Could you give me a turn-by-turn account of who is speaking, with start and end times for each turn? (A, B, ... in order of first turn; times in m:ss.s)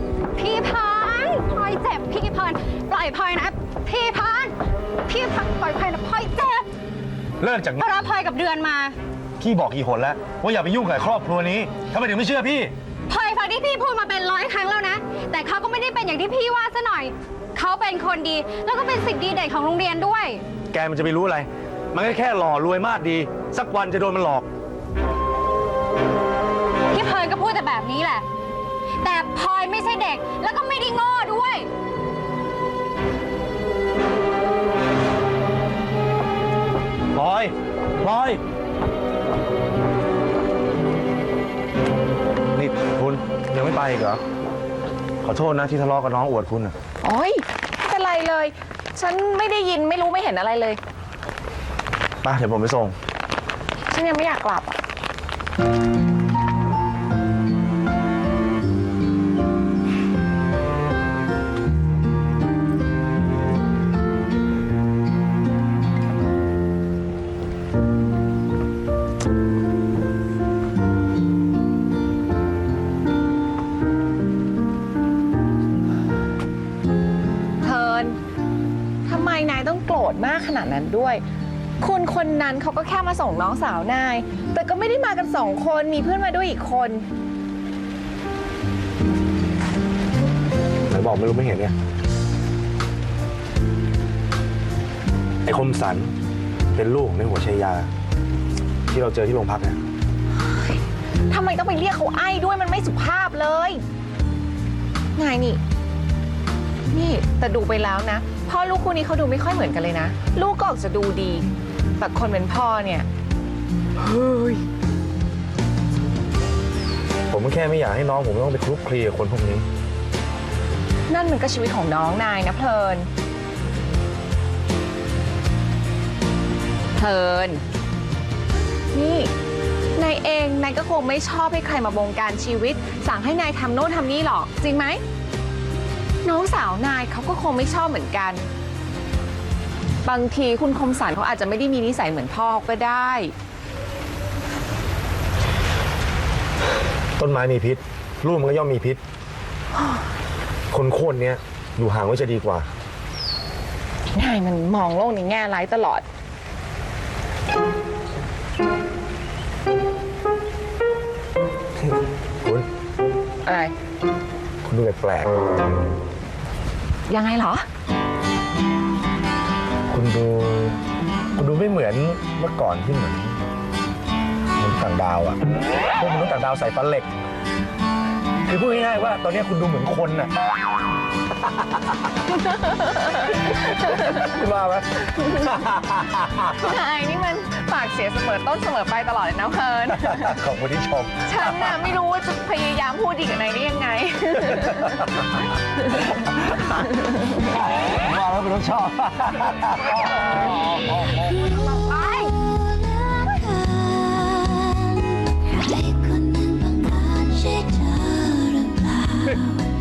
0:00.4-0:04.5 A
0:05.1-0:06.6 A
0:07.4-0:07.8 B
0:07.8-0:09.0 A
0:09.4-0:12.7 B
0:13.1-0:20.4 A
0:20.7-0:24.5 B
0:26.9-0:28.2 A
0:29.0-0:31.7 A
0:37.1-0:38.4 B
0:42.5-0:44.2 B
0:45.2-0:46.7 B
0:47.0-0:50.8 C
0:52.2-0:53.0 B
0:53.9-0:54.8 C
1:17.6-1:18.2 C
1:19.0-1:21.2 C
1:21.8-1:27.0 C
1:30.9-1:31.7 B
1:35.4-1:36.1 B
1:36.7-1:37.9 B
1:38.9-1:39.8 B
1:40.5-1:40.8 C
1:41.3-1:43.8 C
1:45.2-1:45.6 C
1:46.9-1:51.4 C
1:52.0-1:53.1 C
1:54.0-1:54.6 C
1:57.3-1:59.6 B
2:01.1-2:03.1 C
2:07.0-2:07.6 C
2:08.9-2:09.3 C
2:10.0-2:15.0 C
2:16.2-2:18.4 C
2:20.0-2:23.3 C
2:27.2-2:29.0 B
2:30.7-2:32.7 B
2:34.1-2:36.0 C
2:41.8-2:42.7 B
2:43.4-2:43.7 C
2:44.6-2:45.3 B
2:47.1-2:47.6 C
2:49.9-2:50.8 B
2:51.4-2:53.4 B
2:54.6-2:55.4 B
2:56.0-2:57.1 B
2:58.4-3:00.3 B
3:02.3-3:04.2 C
3:03.8-3:06.5 B
3:06.4-3:10.4 C
3:10.0-3:11.7 B
3:11.2-3:15.1 C
3:14.7-3:15.0 B
3:16.1-3:16.7 B
3:17.4-3:21.2 B
3:21.9-3:22.4 A
3:22.4-3:29.6 D